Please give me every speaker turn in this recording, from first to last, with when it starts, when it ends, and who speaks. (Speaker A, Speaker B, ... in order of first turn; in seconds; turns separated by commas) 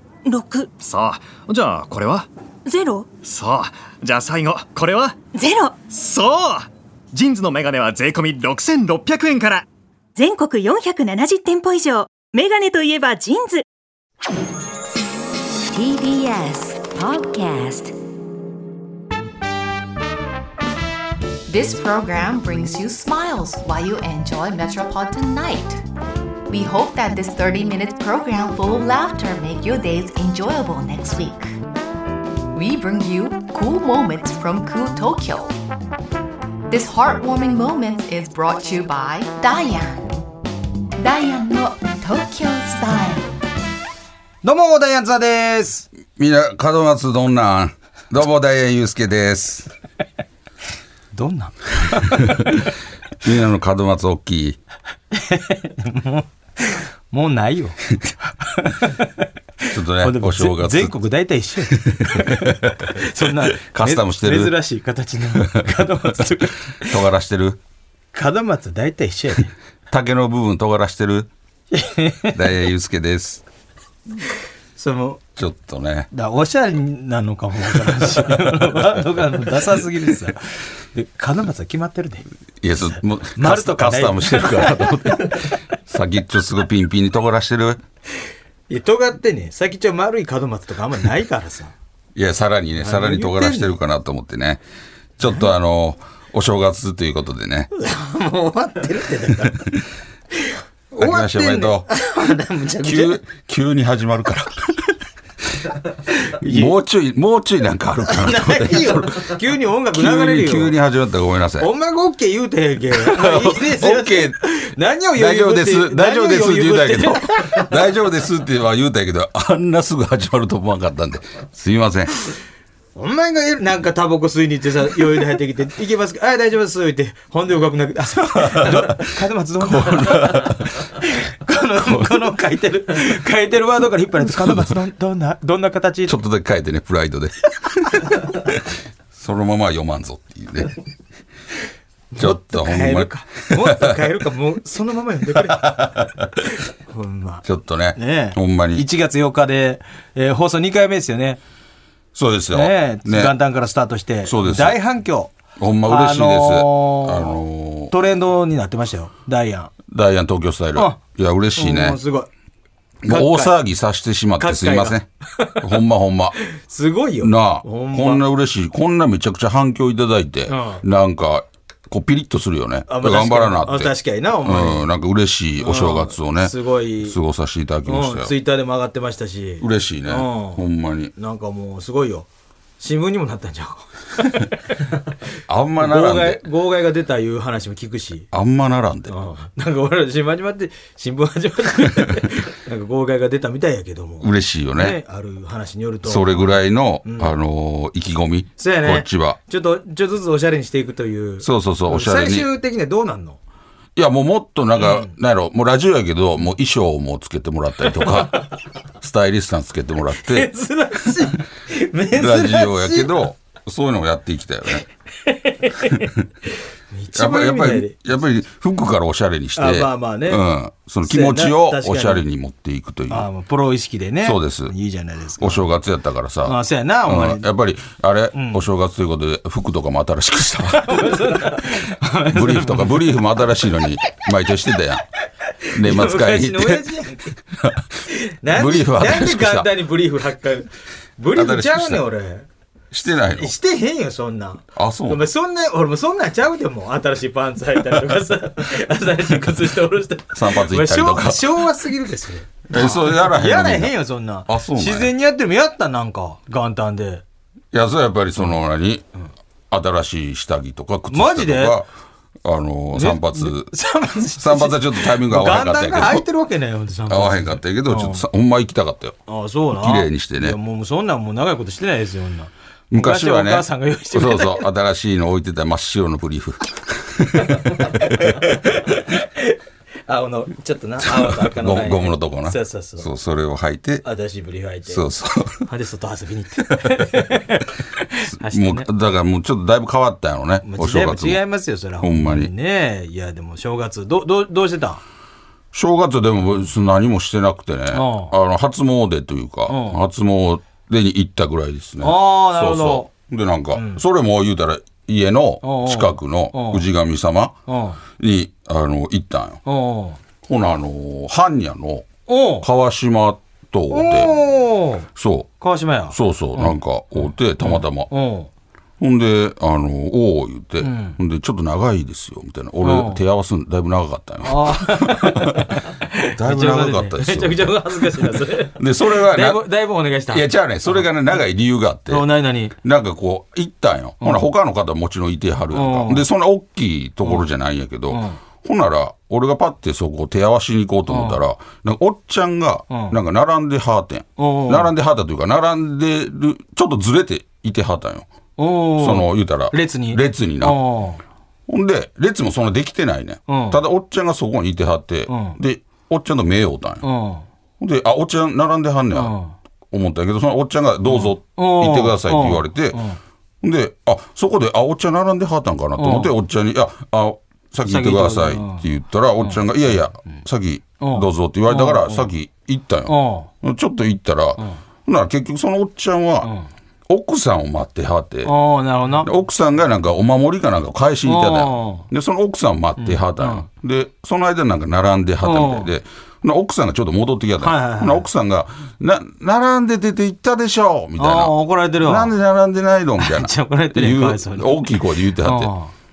Speaker A: 0.3-0.7, Speaker B: 0.8-2.3, Speaker A: 2.6-3.1, Speaker B: 3.2-5.2, Speaker A: 5.3-5.9, Speaker B: 5.9-9.7, Speaker A: 10.2-13.7, Speaker C: 15.7-17.9, Speaker D: 21.5-25.8, Speaker D: 26.5-31.6, Speaker D: 32.5-35.6, Speaker D: 36.7-40.1, Speaker D: 41.0-43.3, Speaker E: 44.4-45.9, Speaker F: 46.1-49.7, Speaker E: 51.1-52.5, Speaker F: 52.1-52.6, Speaker F: 53.2-54.6, Speaker E: 55.1-67.0, Speaker F: 59.7-61.0, Speaker F: 61.7-64.6, Speaker F: 65.3-67.6, Speaker E: 68.1-69.5, Speaker F: 69.9-71.3, Speaker E: 71.7-72.4, Speaker F: 72.3-73.4, Speaker E: 74.8-75.2, Speaker F: 75.4-76.1, Speaker E: 76.1-82.3, Speaker F: 77.7-79.1, Speaker F: 82.6-87.8, Speaker E: 82.9-85.6, Speaker E: 88.7-91.7, Speaker F: 92.2-94.6, Speaker E: 92.8-93.8, Speaker F: 95.2-97.7, Speaker E: 97.7-99.6, Speaker F: 99.4-99.8, Speaker E: 100.4-103.2, Speaker F: 101.0-101.9, Speaker F: 102.8-104.8, Speaker E: 106.2-106.8, Speaker F: 106.4-111.7, Speaker E: 108.1-110.8, Speaker E: 111.6-117.7, Speaker F: 112.9-114.4, Speaker F: 115.2-122.1, Speaker E: 123.0-136.2, Speaker F: 128.4-129.0, Speaker F: 129.6-130.9, Speaker F: 131.8-132.3, Speaker F: 134.2-134.8, Speaker F: 136.1-138.6, Speaker F: 139.1-140.8, Speaker E: 142.1-147.4, Speaker F: 142.2-143.9, Speaker F: 145.3-146.3, Speaker F: 147.4-148.9, Speaker E: 148.0-151.4, Speaker F: 152.2-153.3, Speaker E: 152.5-155.3, Speaker F: 154.3-154.8, Speaker F: 155.6-157.9, Speaker E: 155.8-159.7, Speaker F: 159.9-162.0, Speaker E: 160.8-161.0, Speaker E: 161.6-162.3, Speaker F: 163.0-165.1, Speaker E: 163.1-163.6, Speaker E: 164.4-165.6, Speaker F: 165.6-166.4, Speaker E: 166.4-168.2, Speaker F: 167.2-178.3, Speaker E: 170.5-170.8, Speaker E: 172.9-174.9, Speaker E: 175.6-177.2, Speaker E: 177.9-180.6, Speaker F: 179.6-181.1, Speaker E: 181.2-182.3, Speaker E: 182.8-184.6, Speaker F: 185.5-186.4, Speaker E: 185.8-188.3, Speaker F: 188.3-189.1, Speaker E: 189.1-197.3, Speaker F: 191.9-192.2, Speaker F: 194.2-195.0, Speaker F: 196.1-199.4, Speaker E: 198.6-203.4, Speaker F: 201.4-202.5, Speaker F: 204.0-208.5, Speaker E: 204.8-205.1, Speaker E: 208.0-208.4, Speaker F: 209.0-210.5, Speaker E: 210.2-213.2, Speaker F: 212.1-214.8, Speaker E: 215.2-218.0, Speaker F: 217.1-223.3, Speaker E: 219.6-220.4, Speaker E: 221.1-222.2, Speaker E: 223.1-225.7, Speaker F: 224.2-224.8, Speaker F: 225.4-235.1, Speaker E: 226.4-227.5, Speaker E: 228.3-228.7, Speaker E: 230.7-233.2, Speaker E: 235.6-237.4, Speaker F: 235.7-236.9, Speaker F: 237.5-237.9, Speaker E: 238.1-242.5, Speaker F: 238.5-239.7, Speaker F: 241.3-242.0, Speaker F: 242.9-243.5, Speaker E: 243.3-257.2, Speaker F: 244.8-245.2, Speaker F: 250.3-251.7, Speaker F: 252.7-255.1, Speaker F: 257.7-259.1, Speaker F: 259.7-261.9, Speaker E: 261.1-261.8, Speaker F: 262.4-263.7, Speaker E: 262.9-268.2, Speaker F: 264.3-266.3, Speaker F: 267.1-269.2, Speaker E: 269.3-274.7, Speaker F: 269.8-270.6, Speaker F: 272.9-278.5, Speaker E: 277.5-283.1, Speaker F: 281.0-284.1, Speaker E: 284.0-285.1, Speaker F: 284.9-285.7, Speaker E: 285.6-288.9, Speaker F: 288.3-291.4, Speaker E: 290.6-295.0, Speaker F: 292.0-292.5, Speaker F: 295.7-307.6, Speaker E: 297.9-298.4, Speaker E: 299.7-300.0, Speaker E: 302.0-303.1, Speaker E: 303.8-304.0, Speaker E: 305.6-306.9, Speaker E: 307.7-308.0, Speaker F: 308.2-309.6, Speaker E: 309.6-310.2, Speaker F: 310.4-312.1, Speaker E: 312.3-312.7, Speaker F: 312.6-314.4, Speaker E: 313.9-315.1, Speaker F: 315.1-315.5, Speaker E: 315.6-316.8, Speaker F: 316.1-318.1, Speaker E: 317.6-318.5, Speaker F: 319.0-325.8, Speaker E: 320.8-321.2, Speaker E: 322.8-323.2, Speaker E: 324.4-331.1, Speaker F: 326.3-329.6, Speaker F: 330.3-332.3, Speaker E: 332.1-332.8, Speaker F: 332.8-348.3, Speaker E: 335.7-336.3, Speaker E: 338.1-338.4, Speaker E: 341.1-341.4, Speaker E: 342.9-343.2, Speaker E: 344.4-344.9, Speaker E: 348.6-351.2, Speaker F: 349.0-350.8, Speaker F: 351.7-357.0, Speaker E: 353.5-353.8, Speaker E: 355.3-355.6, Speaker E: 357.0-357.5, Speaker F: 357.8-359.4, Speaker E: 359.1-359.6, Speaker F: 359.9-363.0, Speaker E: 361.1-363.2, Speaker F: 363.6-376.5, Speaker E: 366.0-366.3, Speaker E: 367.9-368.9, Speaker E: 369.4-369.7, Speaker E: 371.0-372.3, Speaker E: 373.1-373.5, Speaker E: 376.4-376.7, Speaker F: 377.1-378.6, Speaker E: 378.4-379.3, Speaker F: 379.2-395.7, Speaker E: 381.3-382.1, Speaker E: 383.0-383.7, Speaker E: 385.4-385.9, Speaker E: 387.6-388.3, Speaker E: 391.2-392.4, Speaker E: 393.2-395.9